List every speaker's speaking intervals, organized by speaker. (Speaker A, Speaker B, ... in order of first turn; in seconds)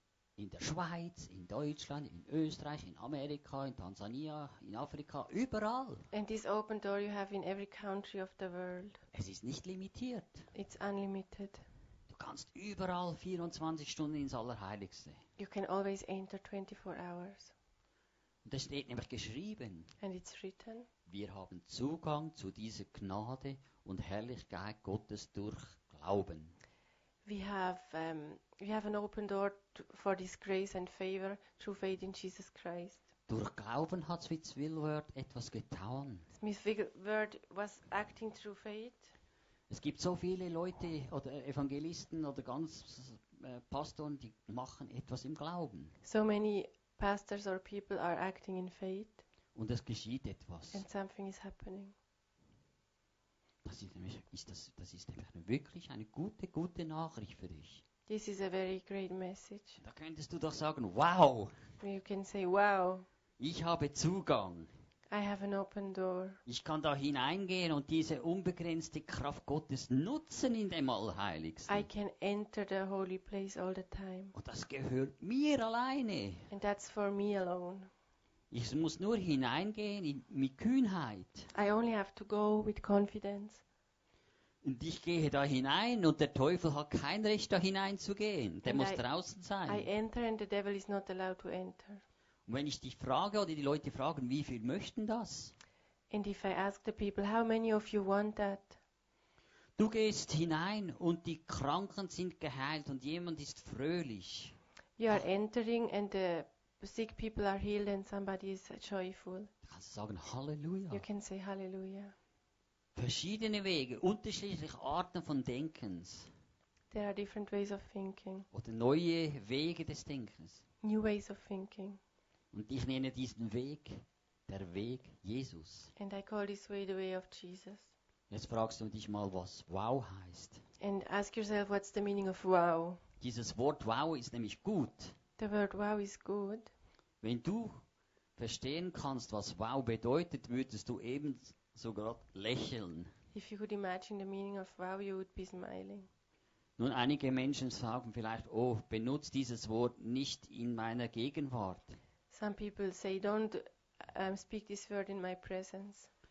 Speaker A: 0.4-6.0, 9.1-10.5, 12.1-15.2, 18.4-19.9, 21.1-26.5, 33.3-36.2, 39.7-46.0, 49.5-50.8, 53.6-57.8, 59.8-61.5, 63.4-64.7, 66.5-71.9, 74.3-76.5, 78.5-81.5, 84.6-89.9, 92.5-95.5, 99.8-104.5, 109.6-111.0, 112.9-116.3, 118.5-120.6, 122.5-125.9, 128.3-130.6, 133.2-135.2, 137.2-137.8, 138.4-143.1, 146.8-152.0
Speaker B: 6.1-9.0, 10.5-11.6, 15.4-17.5, 20.0-20.9, 27.2-33.0, 36.4-39.1, 46.0-49.2, 50.7-51.9, 58.1-59.8, 61.8-63.0, 65.1-66.4, 71.7-74.3, 76.5-77.9, 81.5-83.6, 88.6-89.0, 89.7-92.0, 96.1-98.8, 105.0-109.5, 110.9-112.1, 116.9-118.5, 120.8-122.0, 126.0-127.9, 130.8-133.0, 135.4-136.7, 143.3-146.1, 152.3-156.1